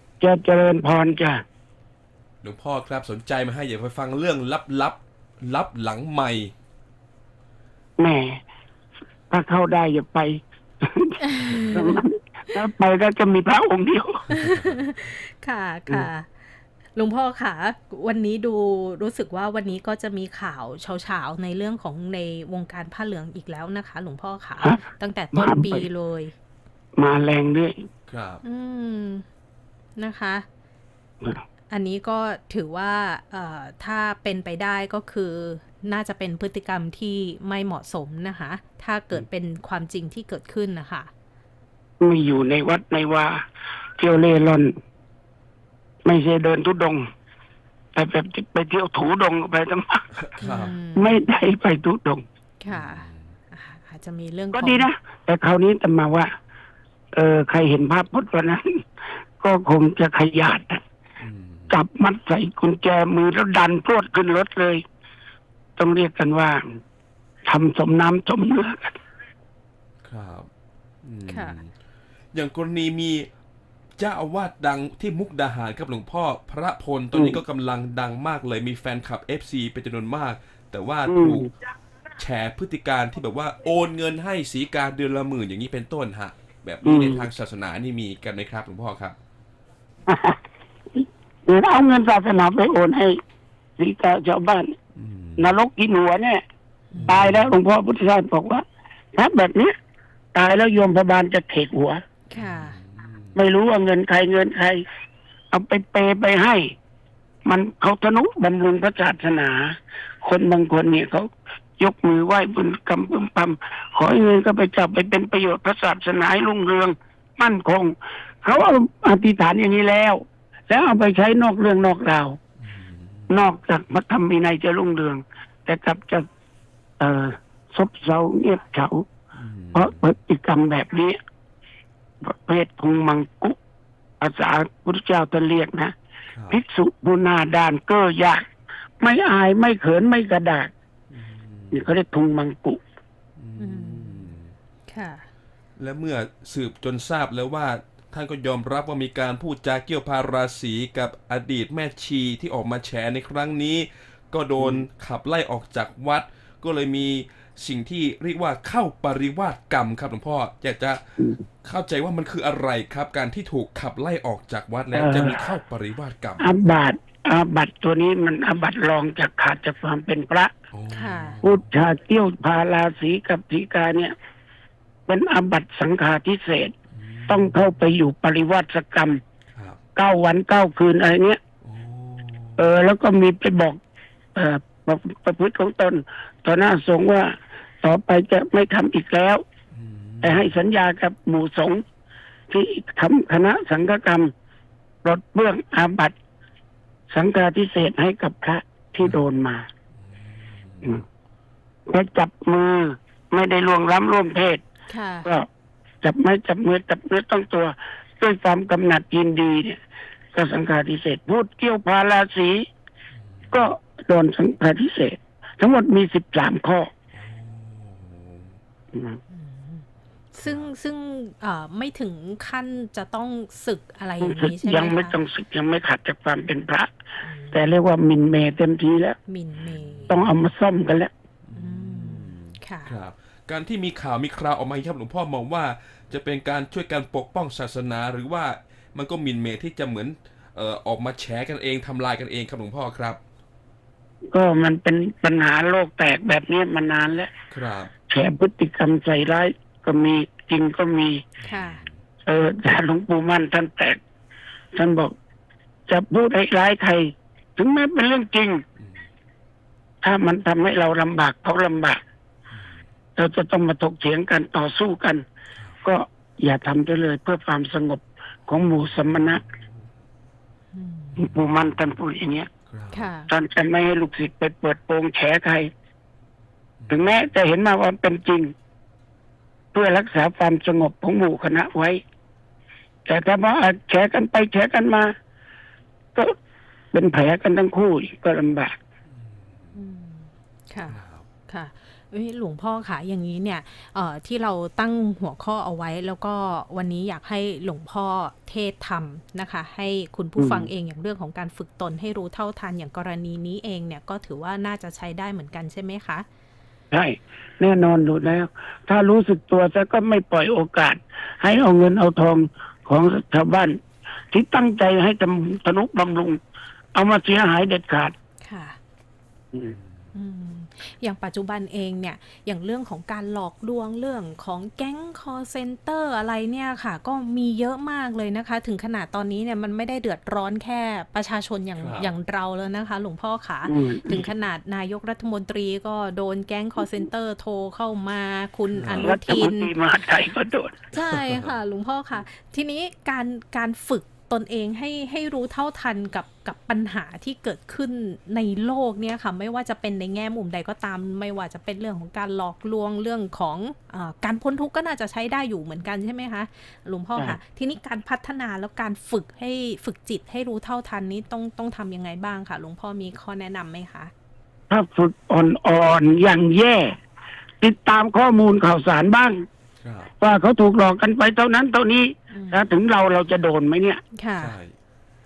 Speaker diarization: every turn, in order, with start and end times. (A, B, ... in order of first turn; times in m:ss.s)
0:00.2-0:01.4 A
0:02.4-0:06.5 B
0:08.0-0:08.4 A
0:09.3-0:11.2 A
0:11.2-0:12.6 C
0:11.7-0:14.2 A
0:14.3-0:16.3 C
0:14.4-0:14.8 B
0:17.0-0:26.3 C
0:25.3-0:25.8 A
0:27.0-0:27.7 A
0:28.1-0:28.4 B
0:28.4-0:29.2 C
0:30.0-0:30.4 C
0:31.7-0:41.1 C
0:42.0-0:43.4 A
0:44.0-0:44.7 A
0:46.0-0:47.0 A
0:48.0-0:50.0 A
0:50.2-0:50.8 B
0:50.4-0:51.2 C
0:51.0-0:52.2 A
0:52.6-0:54.9 C
0:52.7-0:53.4 B
0:54.5-0:56.3 A
0:57.1-0:58.8 A
0:59.4-1:00.8 A
1:01.2-1:01.8 B
1:01.7-1:04.8 A
1:05.8-1:06.6 A
1:07.5-1:08.9 A
1:10.0-1:10.5 B
1:11.0-1:11.7 B
1:11.3-1:11.6 C
1:12.3-1:13.3 B
1:14.0-1:21.5 B
1:17.1-1:17.4 A
1:21.1-1:21.5 A
1:22.2-1:29.2 B
1:26.8-1:27.3 A
1:30.1-1:30.4 A
1:31.0-1:33.2 A
1:33.8-1:34.8 A
1:35.0-1:35.5 B
1:35.4-1:36.4 A
1:36.9-1:37.6 B
1:36.9-1:37.2 C
1:37.1-1:38.6 A
1:39.2-1:39.7 A
1:40.3-1:42.0 A
1:42.3-1:42.8 C
1:42.4-1:43.4 B
1:43.4-1:44.8 A
1:45.5-1:46.7 A
1:47.5-1:51.3 A
1:51.8-2:02.4 A
2:02.6-2:03.5 B
2:03.3-2:06.3 A
2:07.0-2:09.1 A
2:09.3-2:10.2 B
2:09.7-2:11.2 A
2:12.2-2:13.6 A
2:14.2-2:15.9 A
2:16.3-2:16.6 B
2:16.5-2:18.4 A
2:19.0-2:20.7 A
2:21.1-2:21.9 B
2:21.7-2:22.8 A
2:23.4-2:24.5 B
2:23.6-2:24.4 C
2:24.9-2:25.2 C
2:25.8-2:46.5 B
2:34.6-2:34.8 A
2:44.9-2:45.4 A
2:46.4-2:50.5 A
2:50.7-2:51.7 B
2:50.9-2:51.4 C
2:51.4-2:54.1 A
2:55.1-2:56.7 A
2:56.9-2:57.8 B
2:57.3-2:59.2 A
2:59.5-2:59.8 B
3:00.0-3:01.4 A
3:01.6-3:02.7 B
3:02.6-3:03.8 A
3:04.4-3:09.4 A
3:09.7-3:10.6 B
3:10.2-3:11.8 A
3:12.5-3:14.3 A
3:15.0-3:16.2 A
3:17.1-3:19.7 A
3:20.0-3:21.0 B
3:21.9-3:24.6 A
3:24.9-3:25.3 C
3:26.0-3:29.8 A
3:30.3-3:32.6 A
3:33.1-3:33.7 B
3:33.5-3:36.9 A
3:37.1-3:38.6 B
3:38.9-3:39.2 A
3:39.3-3:45.1 C
3:40.4-3:40.7 B
3:44.2-3:46.9 A
3:47.2-3:47.6 C
3:47.5-3:49.2 A
3:49.3-3:50.2 C
3:49.5-3:50.4 B
3:50.1-3:51.1 A
3:51.4-4:03.2 B
3:51.6-3:52.9 C
4:04.3-4:07.3 A
4:07.5-4:07.9 B
4:08.1-4:11.2 A
4:11.4-4:12.0 B
4:11.5-4:11.8 C
4:12.2-4:14.0 A
4:14.8-4:15.1 A
4:15.9-4:18.6 A
4:18.8-4:19.1 B
4:20.0-4:22.0 A
4:22.5-4:22.9 B
4:23.2-4:25.2 A
4:25.8-4:29.4 A
4:28.6-4:29.9 B
4:30.7-4:31.3 C
4:31.2-4:32.0 B
4:31.2-4:32.5 A
4:32.7-4:33.1 B
4:32.9-4:33.3 C
4:33.3-4:35.7 A
4:36.8-4:37.3 B
4:36.9-4:38.5 A
4:39.7-4:42.0 A
4:43.1-4:45.1 A
4:46.9-4:48.8 A
4:49.1-4:49.8 B
4:49.8-5:06.3 C
4:50.9-4:51.3 B
5:00.4-5:00.7 A
5:06.9-5:13.8 A
5:14.3-5:16.4 A
5:16.9-5:18.1 A
5:18.4-5:18.8 C
5:19.6-5:20.1 B
5:20.1-5:39.7 C
5:31.8-5:32.1 B
5:33.7-5:34.3 A
5:38.8-5:39.1 B
5:39.0-5:40.9 A
5:40.9-6:04.1 C
5:41.1-5:41.5 B
6:04.7-6:07.0 A
6:07.6-6:09.4 A
6:09.8-6:10.1 B
6:10.2-6:14.0 A
6:12.3-6:12.7 C
6:14.2-6:14.6 C
6:14.4-6:14.7 B